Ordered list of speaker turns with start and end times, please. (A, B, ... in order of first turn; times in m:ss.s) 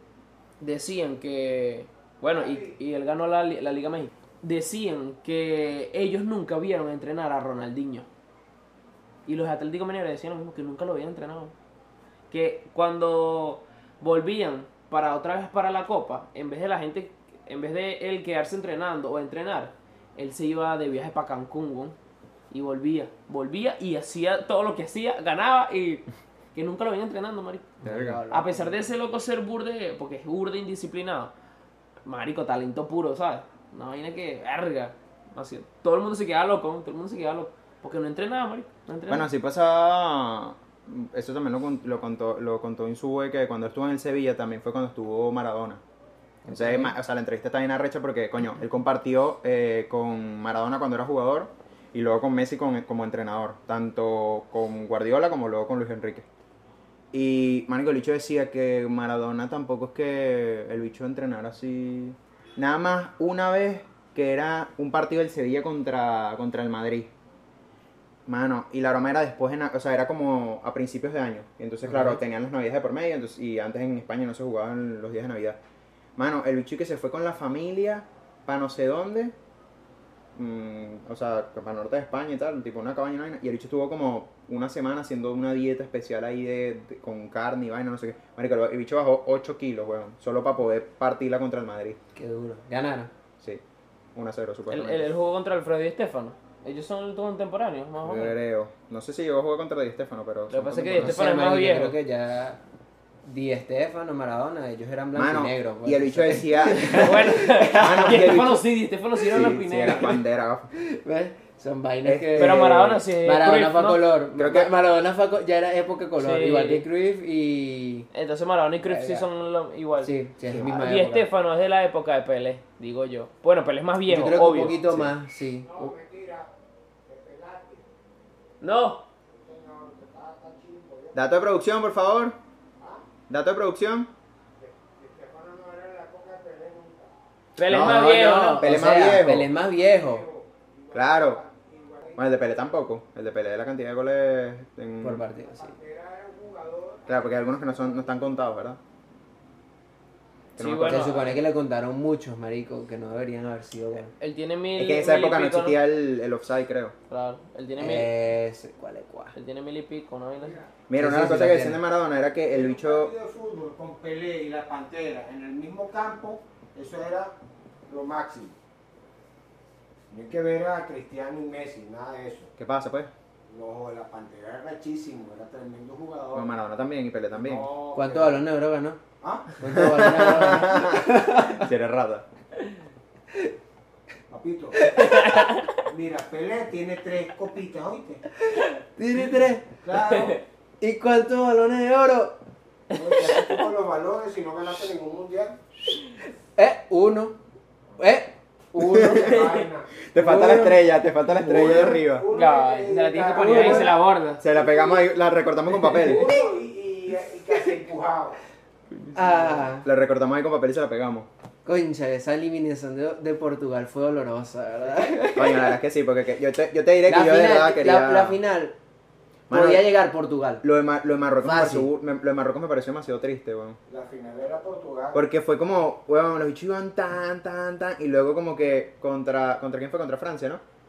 0:00.6-0:08.1 A
0:02.3-0:02.7 B
0:09.3-0:11.5 A
0:12.3-0:22.0 A
0:22.5-0:31.3 A
0:27.8-0:28.8 C
0:27.8-0:28.2 D
0:32.1-0:39.3 A
0:39.1-0:45.8 D
0:46.4-0:46.9 C
0:46.5-0:56.3 D
0:57.1-1:07.1 D
1:08.3-1:15.6 D
1:11.9-1:12.2 C
1:16.2-1:19.3 D
1:20.4-1:32.0 D
1:32.2-1:33.1 C
1:34.2-1:35.1 D
1:34.7-1:38.4 A
1:38.0-1:41.2 D
1:40.5-1:42.0 A
1:41.0-1:42.6 C
1:43.3-1:48.3 C
1:45.2-1:48.6 D
1:46.9-1:50.2 A
1:49.3-1:50.7 D
1:50.7-1:58.1 C
1:52.0-1:53.0 D
1:52.4-1:54.1 A
1:54.4-1:54.7 D
1:56.2-1:56.9 A
1:58.1-2:04.8 A
1:58.8-1:59.3 C
2:00.0-2:01.3 C
2:04.1-2:05.9 C
2:04.8-2:05.1 D
2:05.6-2:06.5 B
2:07.1-2:07.9 B
2:08.6-2:09.0 A
2:09.3-2:11.3 B
2:11.1-2:12.4 D
2:13.3-2:14.1 D
2:14.6-2:17.1 B
2:17.6-2:18.7 A
2:17.7-2:19.5 D
2:17.7-2:20.2 C
2:19.6-2:22.4 B
2:20.9-2:21.4 D
2:22.2-2:25.2 D
2:25.0-2:25.7 C
2:25.4-2:28.3 B
2:27.1-2:28.8 D
2:30.6-2:31.2 D
2:30.6-2:31.4 A
2:30.8-2:34.1 C
2:34.2-2:35.8 A
2:34.8-2:37.0 D
2:37.1-2:38.1 A
2:37.8-2:39.3 C
2:39.4-2:40.6 A
2:40.9-2:43.1 D
2:41.0-2:41.8 C
2:42.5-2:47.3 B
2:47.9-2:48.6 B
2:50.1-2:52.5 B
2:52.6-2:53.1 D
2:53.5-2:56.5 B
2:56.3-2:57.7 D
2:57.3-2:58.4 B
2:58.0-2:59.0 C
2:59.2-3:00.2 B
2:59.6-3:01.6 C
2:59.7-3:02.2 D
3:04.3-3:05.2 B
3:05.1-3:05.6 A
3:05.8-3:08.2 B
3:08.5-3:09.7 C
3:09.8-3:10.4 B
3:10.8-3:12.4 C
3:12.9-3:15.6 B
3:16.6-3:17.4 C
3:18.0-3:19.6 C
3:18.8-3:19.9 B
3:18.8-3:19.2 D
3:20.1-3:22.3 D
3:20.2-3:22.0 C
3:21.5-3:25.0 B
3:22.3-3:24.4 A
3:23.3-3:24.0 C
3:24.4-3:26.3 D
3:25.9-3:28.4 B
3:29.1-3:29.9 C
3:29.8-3:31.3 D
3:31.6-3:35.8 C
3:35.4-3:38.4 D
3:37.1-3:38.8 C
3:39.5-3:39.9 D
3:39.5-3:40.6 C
3:40.6-3:43.8 D
3:41.4-3:41.9 C
3:43.9-3:45.2 B
3:45.1-3:50.6 D